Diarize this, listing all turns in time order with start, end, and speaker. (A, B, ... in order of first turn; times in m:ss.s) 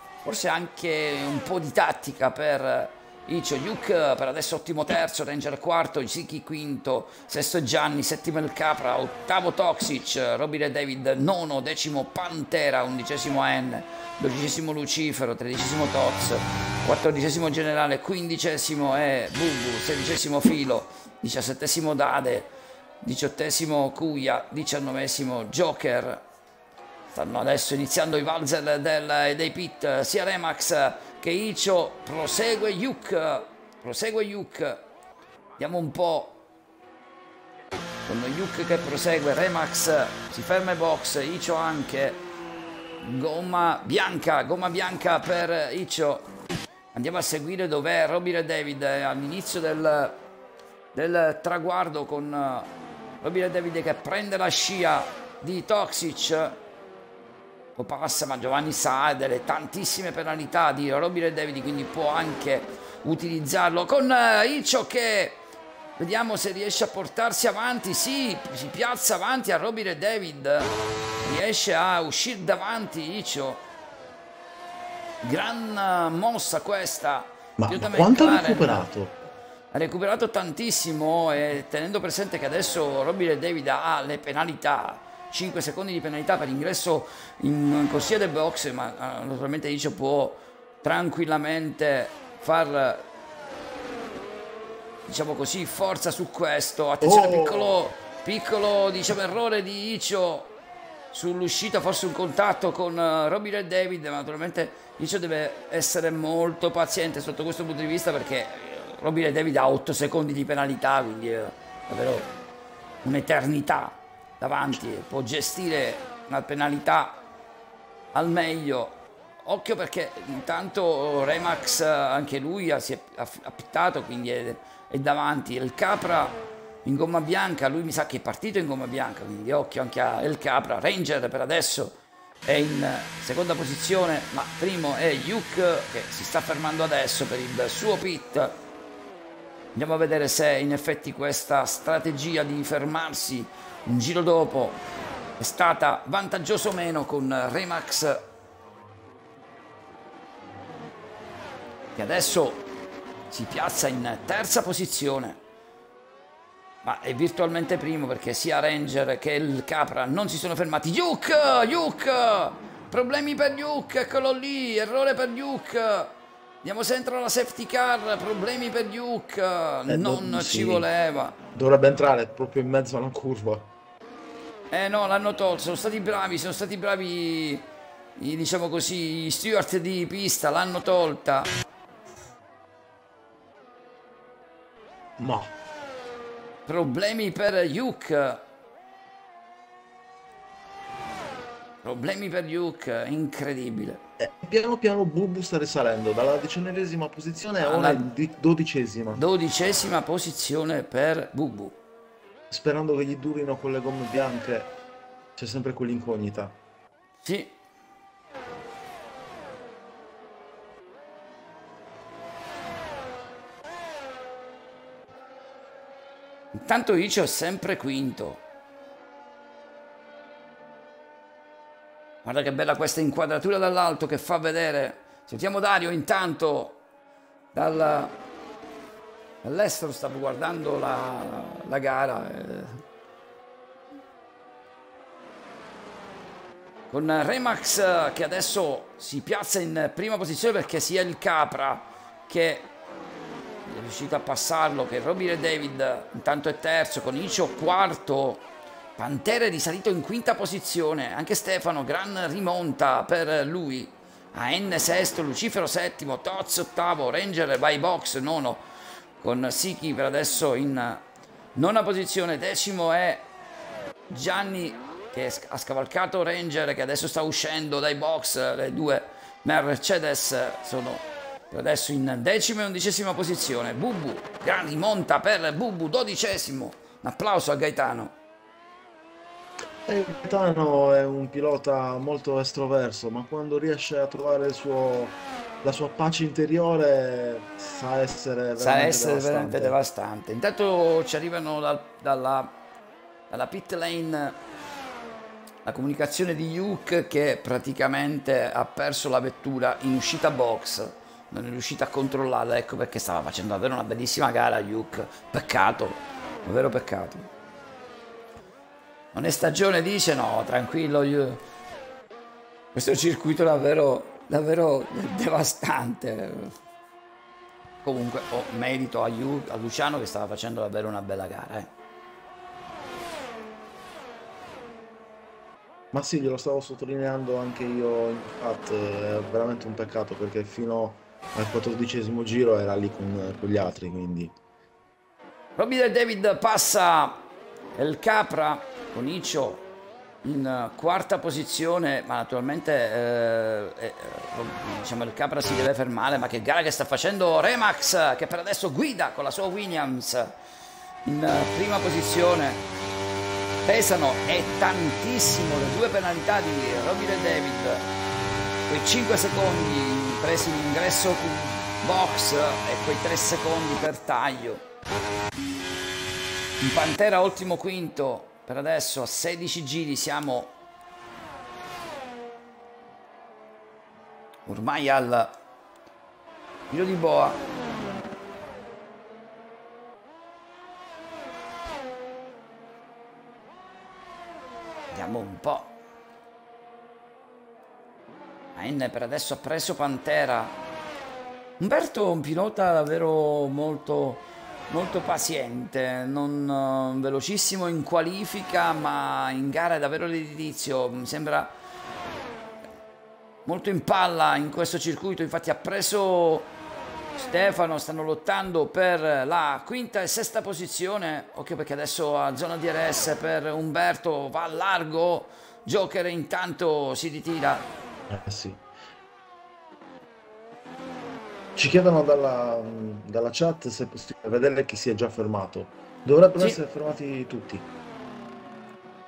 0:00.2-0:22.5 A
0:23.0-0:26.2 A
0:27.1-0:34.8 A
0:35.6-0:36.4 A
0:38.0-0:42.2 A
0:43.0-0:46.3 A
0:46.9-0:50.2 A
0:50.9-0:52.7 A
0:53.2-0:56.6 A
0:57.8-1:05.4 A
1:06.0-1:13.6 A
1:15.2-1:18.8 A
1:17.6-1:19.2 B
1:19.7-1:33.0 A
1:35.1-1:40.5 A
1:37.0-1:37.8 B
1:41.1-1:52.3 A
1:53.0-1:57.2 A
1:58.1-2:18.6 A
2:19.7-2:24.8 A
2:25.4-2:28.2 A
2:32.0-2:32.6 A
2:33.3-2:35.4 A
2:36.8-2:46.1 A
2:46.6-2:51.4 A
2:49.9-2:50.9 B
2:51.5-2:53.7 B
2:54.7-2:57.6 A
2:58.2-3:01.5 A
3:05.2-3:05.5 B
3:06.7-3:08.4 A
3:11.8-3:14.0 A
3:14.2-3:19.2 B
3:17.6-3:18.0 A
3:19.1-3:21.8 A
3:22.5-3:24.7 B
3:25.4-3:26.6 B
3:27.2-3:27.5 A
3:36.5-3:38.4 A
3:42.2-3:46.8 A
3:47.5-3:48.2 A
3:49.4-3:52.8 A
3:56.9-4:02.7 A
4:03.6-4:08.4 A
4:09.0-4:18.6 A
4:19.2-4:21.0 A
4:21.5-4:23.2 A
4:24.1-4:38.1 A
4:39.8-4:49.8 B
4:48.6-4:52.5 A
4:53.3-4:54.4 A
4:55.6-5:07.3 A
5:09.1-5:11.4 A
5:12.7-5:16.5 A
5:17.8-5:21.7 A
5:25.9-5:34.3 B
5:35.6-5:37.2 A
5:37.8-5:39.6 A
5:40.2-5:50.3 A
5:51.0-5:52.6 A
5:53.6-5:57.8 A
5:58.7-6:04.6 A
6:06.6-6:10.5 A
6:14.4-6:15.3 A
6:16.7-6:17.4 A
6:24.9-6:25.7 A
6:28.6-6:30.6 A
6:31.6-6:41.5 A
6:43.4-6:46.5 A
6:47.2-6:57.6 A
6:58.1-6:58.6 B
7:01.5-7:07.7 B